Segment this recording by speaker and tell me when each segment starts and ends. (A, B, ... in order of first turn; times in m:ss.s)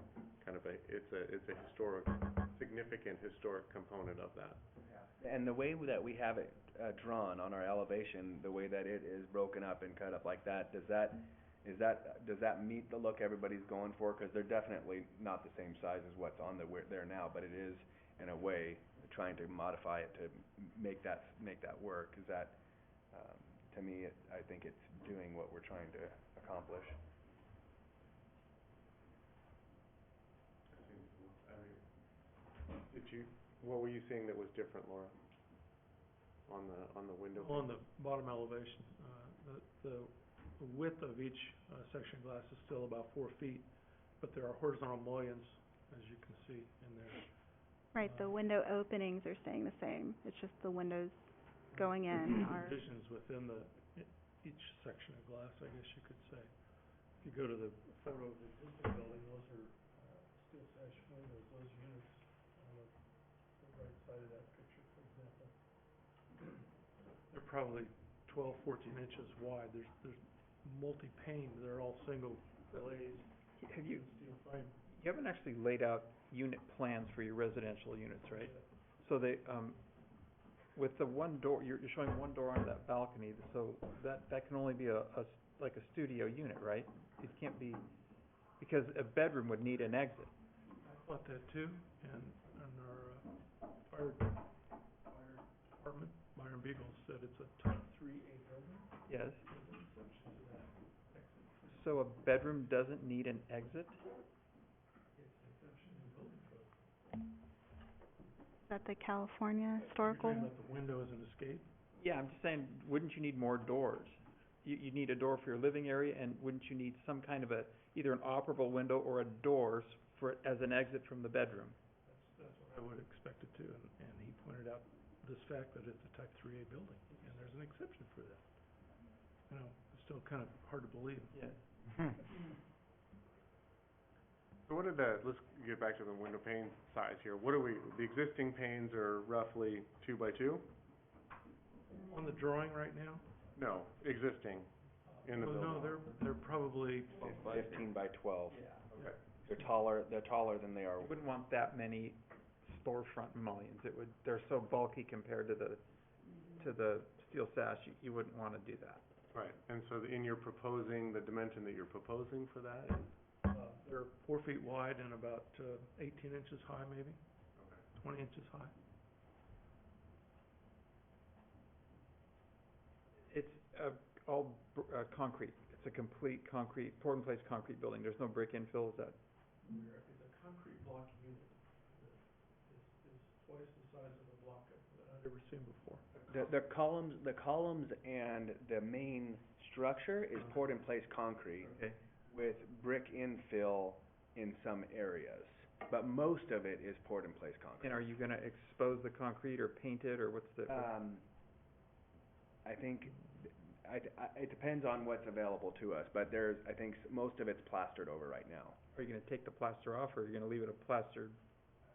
0:00.4-0:04.6 A
0:05.2-0:22.6 B
0:23.1-0:27.0 B
0:30.7-0:35.1 A
0:36.4-0:37.7 A
0:37.4-0:48.4 C
0:47.9-0:52.8 D
0:51.7-1:06.6 C
1:07.3-1:14.8 C
1:13.6-1:14.0 E
1:14.9-1:19.8 E
1:18.3-1:18.6 C
1:20.7-1:27.9 E
1:28.4-1:30.3 E
1:30.8-1:41.8 C
1:39.1-1:39.4 E
1:41.7-1:44.0 E
1:45.1-1:46.8 C
1:48.7-1:50.5 D
1:49.9-1:51.7 C
1:52.0-2:01.8 E
2:02.0-2:11.5 C
2:11.3-2:11.6 E
2:14.6-2:20.7 A
2:22.0-2:23.3 C
2:23.5-2:26.0 A
2:25.0-2:27.8 C
2:27.2-2:27.7 E
2:27.3-2:28.6 B
2:28.5-2:29.2 E
2:28.9-2:29.2 C
2:29.4-2:31.1 B
2:31.0-2:39.0 E
2:39.3-2:43.2 A
2:43.4-2:47.2 C
2:47.6-2:47.8 A
2:47.9-2:48.7 C
2:53.3-2:59.2 E
2:59.6-3:06.5 C
3:06.3-3:11.7 B
3:11.7-3:12.0 E
3:12.2-3:18.0 B
3:17.8-3:20.9 E
3:20.7-3:21.2 B
3:22.6-3:28.8 B
3:28.9-3:31.4 E